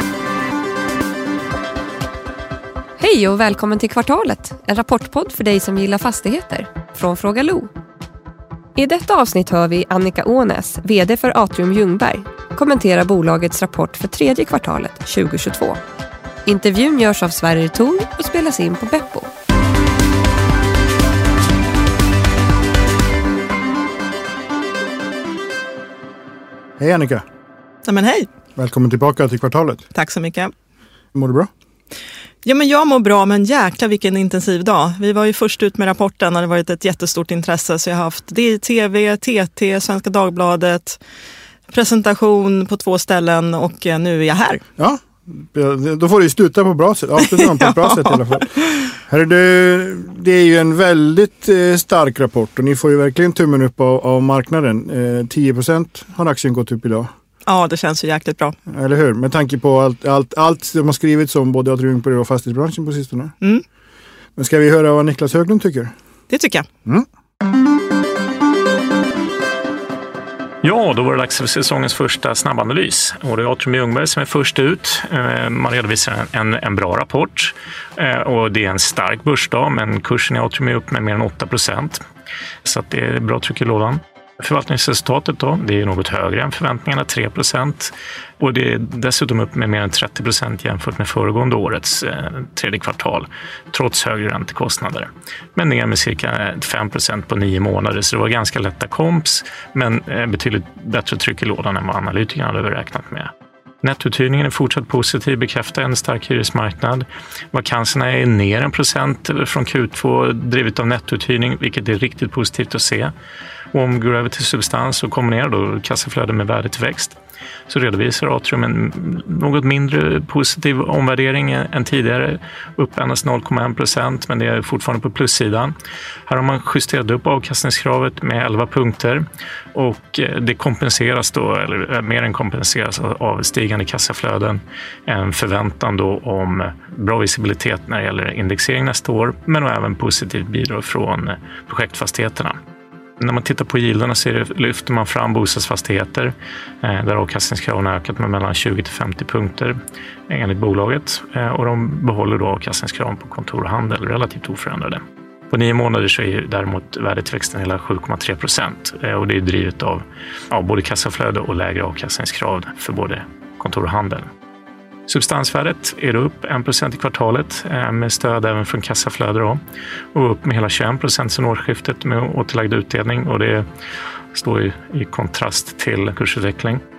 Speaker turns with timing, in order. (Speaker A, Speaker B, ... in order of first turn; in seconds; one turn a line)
Speaker A: 3.0-7.7
Speaker A: 8.8-15.8
Speaker A: 16.5-19.3
Speaker B: 26.8-27.2
Speaker C: 27.9-28.3
Speaker B: 28.6-29.9
Speaker C: 29.9-30.5
Speaker B: 31.1-31.5
Speaker C: 32.4-41.0
Speaker C: 41.7-44.6
Speaker B: 44.8-57.1
Speaker C: 47.2-48.9
Speaker C: 57.5-58.6
Speaker B: 58.7-63.4
Speaker B: 64.4-65.9
Speaker C: 66.3-66.7
Speaker D: 70.6-82.0
Speaker D: 82.7-103.3
Speaker D: 103.8-113.1
Speaker D: 113.7-117.2
Speaker D: 117.7-125.7
Speaker D: 126.3-142.6
Speaker D: 143.2-149.8
Speaker D: 150.3-164.3
Speaker D: 165.1-169.6
Speaker D: 170.1-173.7
Speaker D: 174.3-176.8